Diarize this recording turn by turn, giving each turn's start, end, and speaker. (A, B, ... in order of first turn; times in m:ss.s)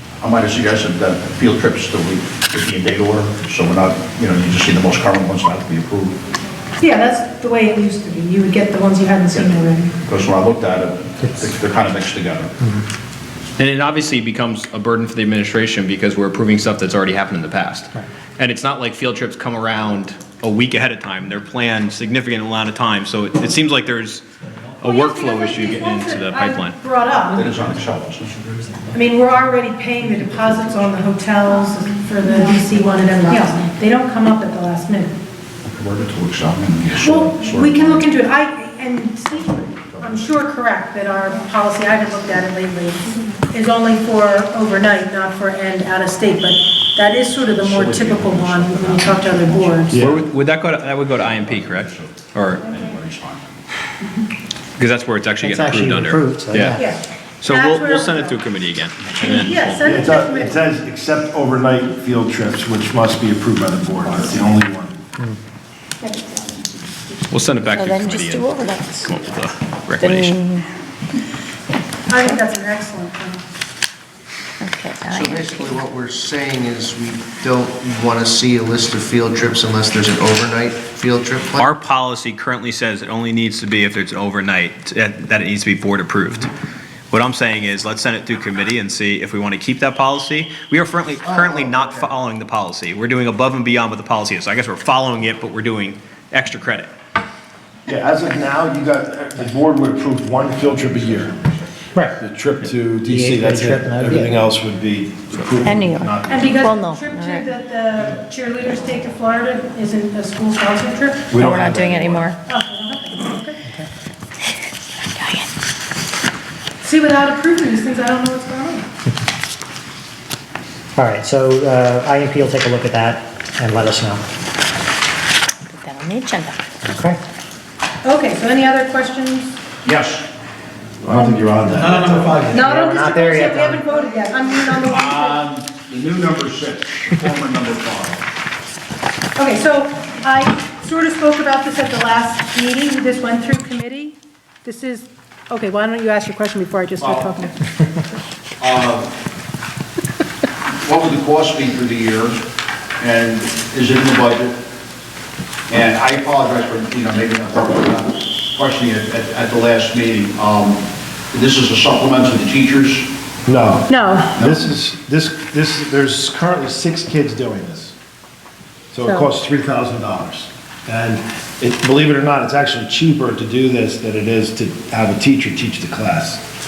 0:00.2-0:06.2 A
0:06.8-0:09.9 B
0:09.3-0:12.5 A
0:13.6-0:24.2 C
0:24.8-0:26.8 C
0:24.8-0:27.5 B
0:27.3-0:28.8 A
0:28.9-0:35.1 B
0:35.6-0:38.1 A
0:37.0-0:50.0 B
0:39.5-0:40.4 A
0:47.6-0:50.1 A
0:49.9-0:50.2 D
0:49.9-0:52.6 C
0:51.1-0:53.6 A
0:54.8-0:56.8 C
0:55.4-0:56.9 E
0:56.7-0:58.4 B
0:57.4-1:00.0 C
0:59.2-1:00.6 B
0:59.8-1:05.0 D
1:07.3-1:10.4 C
1:07.7-1:09.1 F
1:10.0-1:10.7 F
1:12.1-1:13.4 B
1:14.6-1:15.8 F
1:15.1-1:21.7 G
1:21.6-1:26.5 C
1:27.1-1:36.9 C
1:37.9-1:41.4 D
1:42.1-1:46.6 D
1:43.1-1:44.4 E
1:45.6-1:47.5 F
1:46.3-1:51.4 B
1:51.3-1:52.3 D
1:51.4-1:52.4 F
1:52.4-1:53.6 B
1:55.1-1:55.5 F
1:56.8-1:58.8 B
2:01.0-2:04.2 E
2:05.7-2:06.6 F
2:06.8-2:07.2 E
2:08.0-2:09.5 B
2:09.8-2:10.3 A
2:11.0-2:12.5 D
2:11.8-2:13.8 E
2:12.5-2:15.4 B
2:14.8-2:18.2 A
2:19.4-2:27.6 B
2:27.0-2:27.4 A
2:28.6-2:29.1 A
2:30.8-2:32.4 A
2:33.0-2:34.6 A
2:35.7-2:43.1 A
2:43.4-2:47.9 D
2:43.9-2:44.5 B
2:48.9-2:56.4 D
2:49.0-2:49.3 B